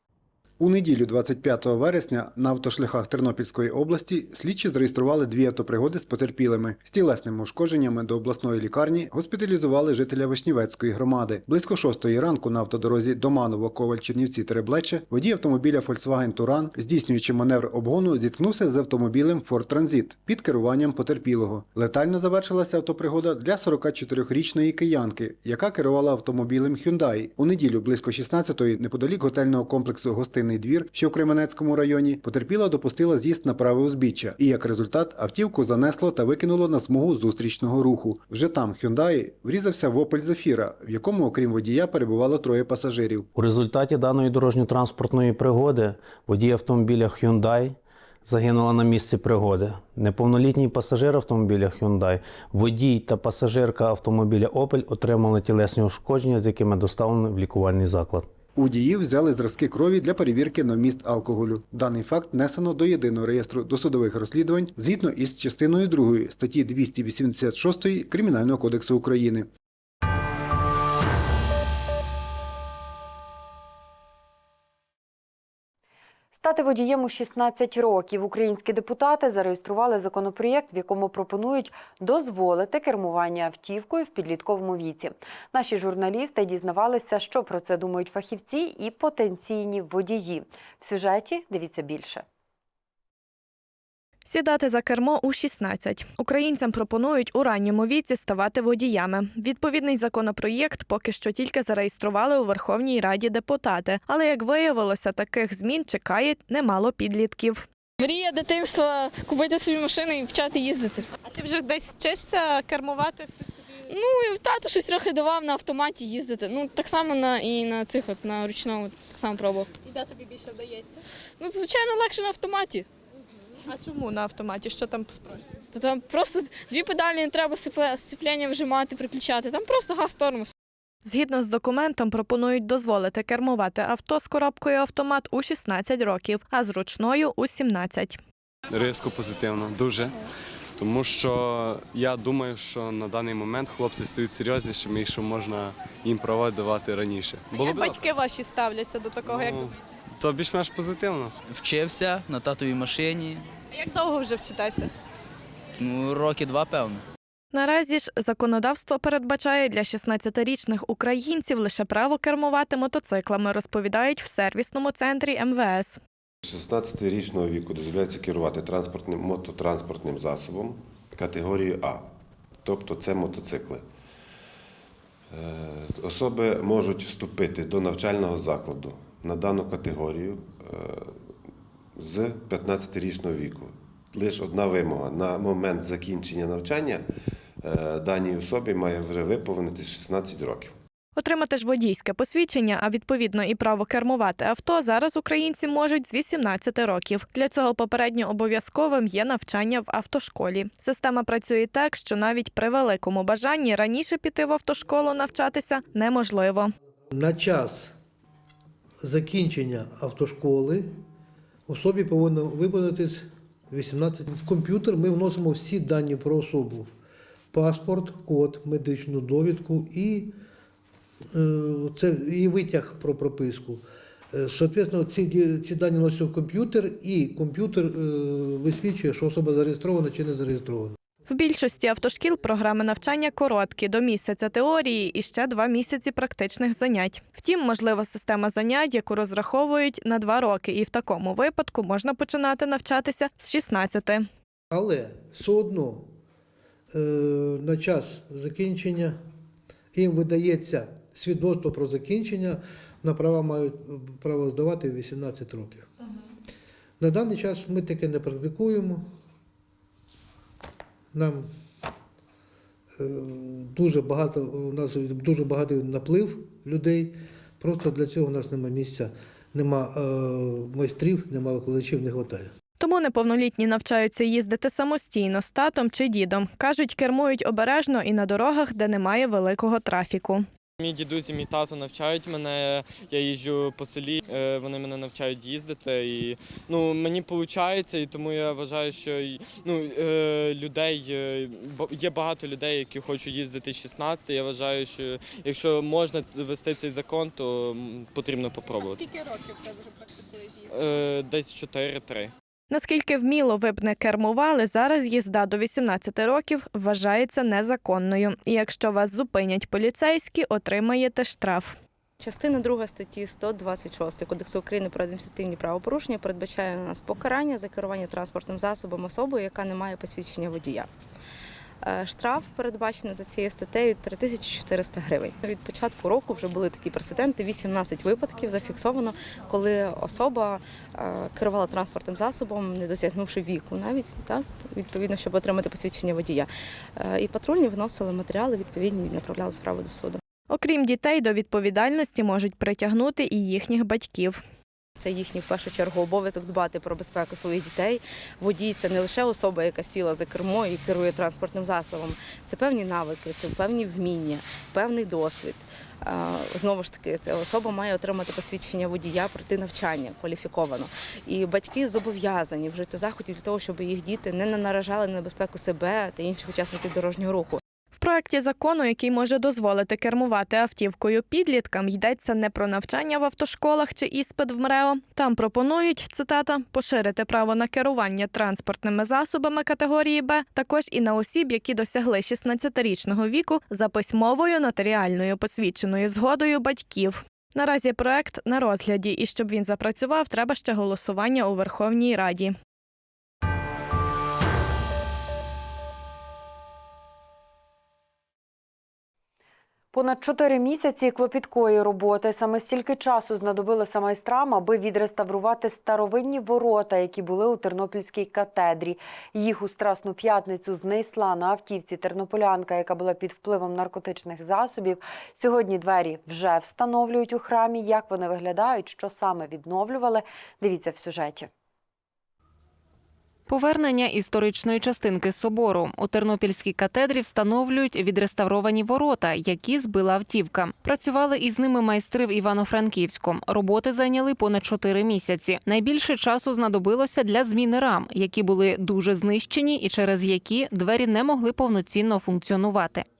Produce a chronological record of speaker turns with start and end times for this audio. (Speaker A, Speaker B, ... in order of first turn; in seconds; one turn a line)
Speaker A: 0.6-43.3
Speaker B: 43.3-58.3
Speaker A: 58.5-69.5
Speaker C: 76.3-92.2
Speaker D: 94.2-107.7
Speaker E: 108.0-111.1
Speaker D: 111.4-113.2
Speaker E: 113.9-119.7
Speaker E: 121.4-122.8
Speaker D: 123.8-125.2
Speaker E: 125.7-130.5
Speaker D: 131.0-138.2
Speaker F: 138.7-140.1
Speaker F: 140.8-148.1
Speaker F: 149.2-151.3
Speaker G: 151.5-153.4
Speaker G: 155.8-157.0
Speaker D: 157.5-166.0
Speaker H: 166.4-172.1
Speaker H: 172.6-173.8
Speaker H: 175.3-181.3
Speaker H: 181.9-187.1
Speaker H: 187.6-190.7
Speaker D: 191.2-206.7
Speaker I: 207.1-207.9
Speaker I: 209.0-210.9
Speaker I: 211.7-216.9
Speaker I: 217.5-220.3
Speaker I: 221.3-230.9
Speaker D: 231.2-244.3
Speaker I: 244.7-246.1
Speaker I: 246.9-249.2
Speaker I: 249.9-255.9
Speaker I: 257.0-259.1
Speaker I: 261.1-261.5
Speaker I: 263.0-272.5
Speaker D: 272.8-280.4
Speaker J: 280.8-299.1
Speaker J: 300.7-302.3
Speaker D: 302.7-311.8
Speaker K: 312.2-320.9
Speaker K: 321.8-340.2
Speaker D: 340.5-344.4
Speaker K: 345.0-367.6
Speaker D: 367.9-392.5
Speaker C: 399.9-421.5
Speaker L: 423.5-443.0